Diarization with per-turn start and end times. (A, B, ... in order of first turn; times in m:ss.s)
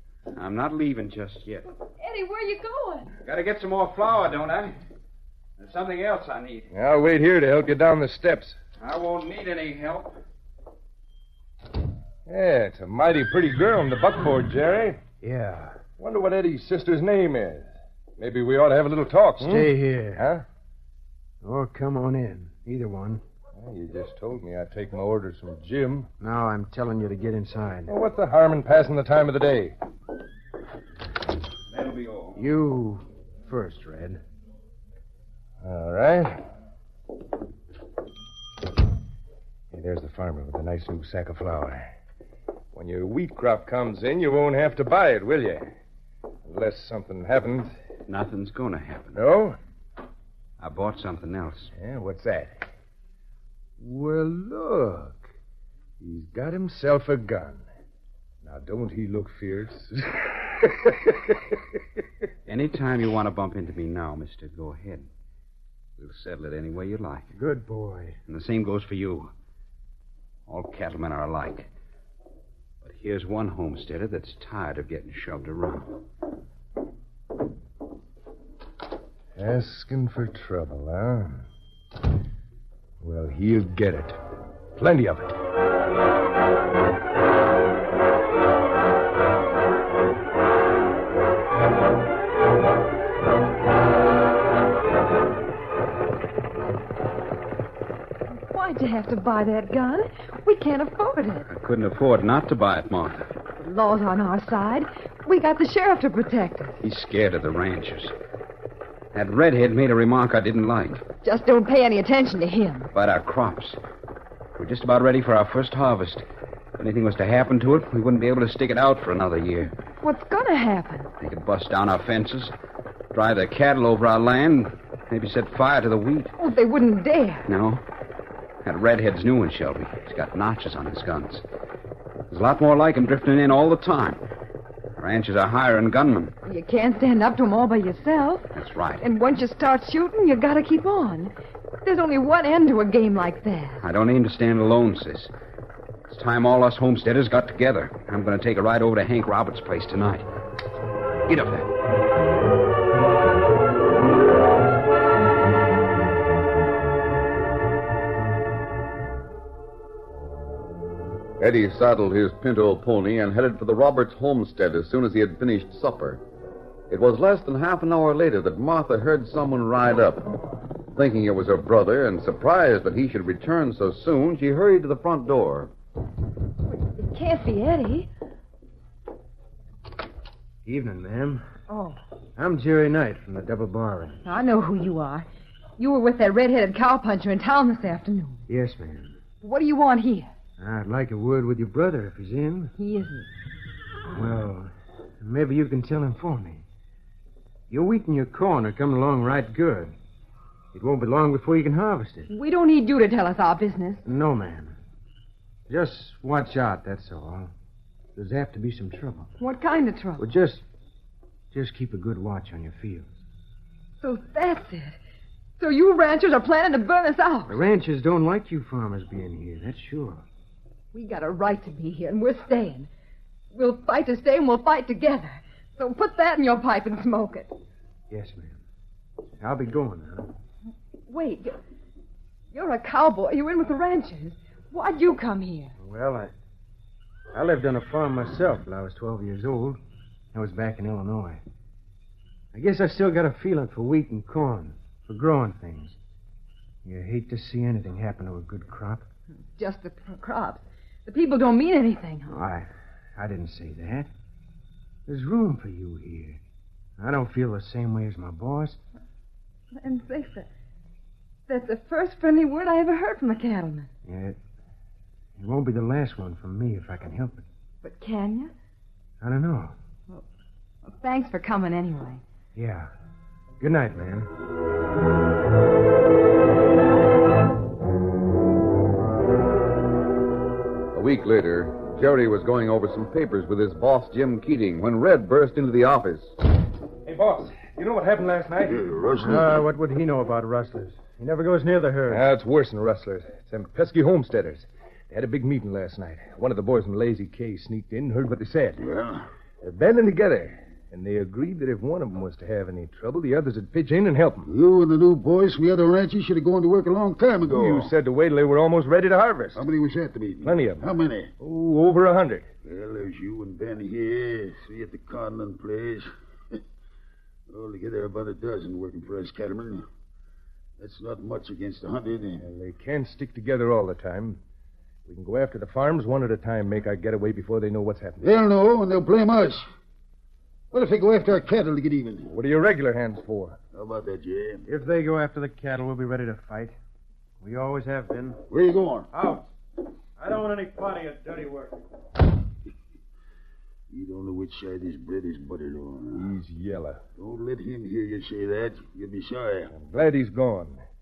0:00.3-0:01.6 A
0:01.8-0:03.1 B
0:03.2-0:04.7 A
0:05.6-0:06.7 A
0:06.7-0:08.6 C
0:08.8-0:10.1 A
0:12.2-0:15.0 C
0:15.2-0:15.8 D
0:15.9-0:20.4 C
0:19.4-0:20.3 D
0:21.4-0:23.2 D
0:23.6-0:26.1 C
0:26.2-0:27.9 D
0:27.9-0:29.8 C
0:31.7-0:32.4 A
0:32.4-0:34.2 D
0:35.6-0:36.4 C
0:39.7-0:41.9 C
0:42.7-0:45.7 C
0:46.4-0:47.7 C
0:48.1-0:49.2 A
0:49.1-0:49.6 C
0:50.6-0:51.7 A
0:51.8-0:52.5 C
0:53.8-0:55.3 C
0:56.0-0:57.6 C
0:58.4-1:01.4 C
1:02.4-1:05.1 A
1:06.0-1:07.3 A
1:07.3-1:08.2 D
1:08.3-1:09.3 A
1:10.5-1:11.7 A
1:12.8-1:16.0 A
1:19.4-1:21.4 C
1:23.0-1:24.2 C
1:24.8-1:25.3 C
1:38.5-1:41.5 B
1:41.5-1:43.3 A
1:43.6-1:46.8 B
1:46.8-1:48.1 A
1:49.1-1:51.0 A
1:51.2-1:52.9 B
1:52.9-1:53.8 A
1:54.6-1:56.2 A
1:56.8-1:59.7 A
2:00.0-2:01.1 B
2:01.2-2:02.5 A
2:03.1-2:06.3 A
2:06.4-2:07.5 B
2:07.4-2:07.8 A
2:08.6-2:11.4 A
2:12.3-2:14.2 A
2:15.0-2:16.3 A
2:16.4-2:21.3 B
2:18.5-2:19.0 A
2:21.8-2:23.8 B
2:23.8-2:25.3 A
2:26.1-2:30.2 A
2:31.3-2:31.7 A
2:41.4-2:46.2 E
2:46.9-2:50.3 E
2:50.9-2:55.7 E
2:56.7-2:58.1 B
3:00.6-3:01.4 D
3:01.7-3:02.0 B
3:02.4-3:04.2 D
3:04.2-3:05.2 B
3:05.8-3:08.4 B
3:08.5-3:09.2 D
3:09.4-3:10.3 B
3:10.6-3:12.7 D
3:12.8-3:13.3 B
3:14.1-3:14.7 D
3:15.2-3:16.6 D
3:17.7-3:19.9 D
3:20.7-3:22.3 D
3:22.3-3:24.0 B
3:24.0-3:24.7 D
3:25.7-3:27.5 D
3:28.2-3:29.3 D
3:29.4-3:30.2 B
3:30.2-3:30.6 D
3:31.5-3:33.0 D
3:34.0-3:35.0 B
3:35.6-3:37.6 B
3:37.5-3:40.2 D
3:40.9-3:42.9 B
3:43.5-3:47.5 B
3:48.1-3:48.6 D
3:49.4-3:50.3 D
3:51.1-3:51.6 B
3:52.5-3:55.7 B
3:55.8-3:56.3 D
3:57.3-3:59.8 D
4:00.3-4:01.4 D
4:02.5-4:06.0 D
4:06.8-4:09.0 D
4:09.6-4:12.3 B
4:12.3-4:14.1 D
4:15.1-4:16.4 D
4:17.0-4:18.8 D
4:19.7-4:20.5 B
4:21.5-4:23.9 B
4:24.0-4:24.4 D
4:25.4-4:27.4 D
4:27.8-4:28.5 B
4:29.2-4:29.7 D
4:30.8-4:32.2 B
4:32.5-4:32.9 D
4:33.6-4:34.3 D
4:40.9-4:46.3 E
4:47.0-4:48.8 C
4:48.7-4:49.6 F
4:49.2-4:52.2 D
4:52.1-4:58.8 C
4:58.8-4:59.2 F
4:59.6-5:04.5 C
5:04.5-5:07.9 F
5:07.5-5:09.6 C
5:09.5-5:11.3 F
5:10.4-5:10.9 C
5:11.4-5:12.5 C
5:12.6-5:16.6 F
5:17.5-5:19.8 F
5:20.8-5:22.4 F
5:22.4-5:24.4 C
5:25.0-5:28.3 C
5:28.2-5:29.6 F
5:30.7-5:32.3 F
5:32.3-5:33.6 C
5:33.7-5:34.6 F
5:34.6-5:36.8 D
5:37.4-5:38.4 D
5:38.5-5:39.1 F
5:39.1-5:39.5 D
5:40.2-5:41.8 D
5:43.9-5:46.2 F
5:46.1-5:47.0 C
5:47.2-5:49.7 F
5:49.7-5:50.8 C